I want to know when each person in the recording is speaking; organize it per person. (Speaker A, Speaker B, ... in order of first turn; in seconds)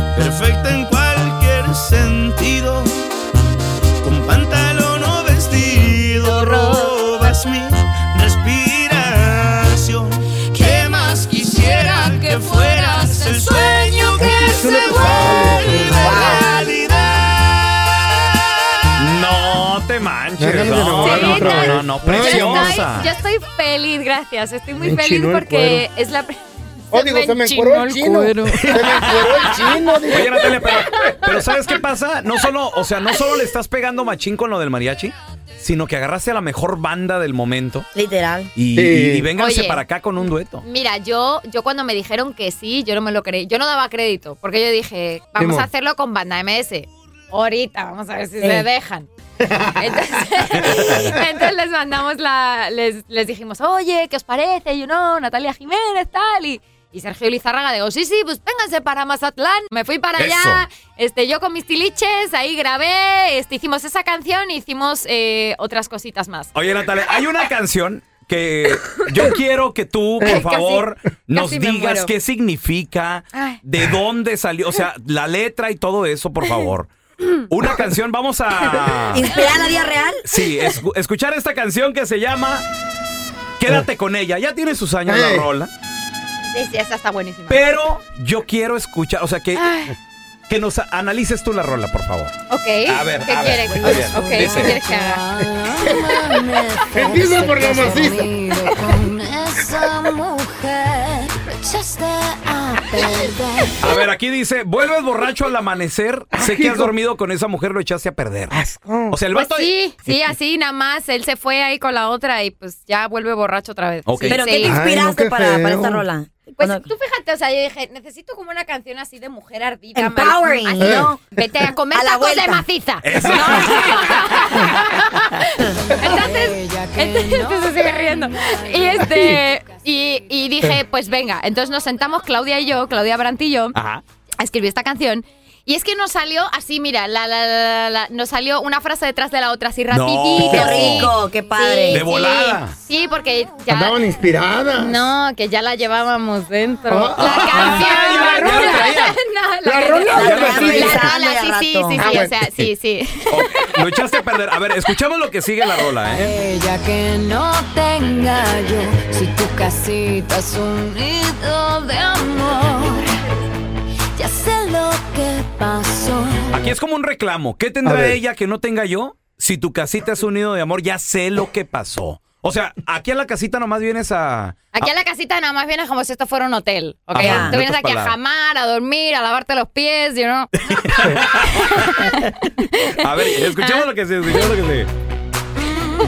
Speaker A: 0.1-3.1, 4.0-17.5
Speaker B: 6.3-6.5, 10.6-16.7, 26.9-29.8, 93.8-103.8, 125.7-129.5, 156.3-163.1, 164.2-166.5
Speaker C: 14.2-16.1, 20.4-22.8, 24.8-25.9, 26.9-30.6, 38.8-39.3, 45.4-45.7, 85.1-85.5, 95.9-96.3, 96.9-98.8, 106.3-106.9, 108.5-109.2, 114.6-116.0, 120.8-121.2, 140.5-140.8, 143.7-145.0, 146.9-147.9, 149.6-151.1, 152.0-152.7, 167.8-168.2
Speaker D: 15.7-16.5, 37.9-38.5, 79.1-80.2, 114.3-116.9, 120.0-121.2, 121.9-122.7, 123.2-123.8, 140.4-142.0, 150.1-152.0, 177.2-177.6
Speaker E: 19.0-23.1, 28.5-37.9, 38.5-40.6, 50.5-51.1, 60.2-60.6, 66.5-76.9, 77.5-79.5, 80.2-82.7, 83.6-85.7, 87.5-89.7, 90.5-92.3, 92.9-94.8, 103.8-108.6, 109.1-110.3, 114.1-114.5, 123.0-124.6, 133.7-134.0, 139.9-141.1, 141.9-142.8, 147.2-149.2, 150.2-151.1, 153.3-156.3, 166.5-174.9, 177.1-178.2, 180.7-182.1, 182.9-184.9
Speaker F: 21.0-26.4, 29.4-31.5, 39.4-39.8, 40.6-49.1, 49.8-66.5, 70.2-72.1, 73.3-73.6, 86.5-87.7, 89.6-90.0, 92.5-95.3, 109.3-114.8, 116.6-133.8, 134.4-144.0, 144.8-154.1, 174.7-183.9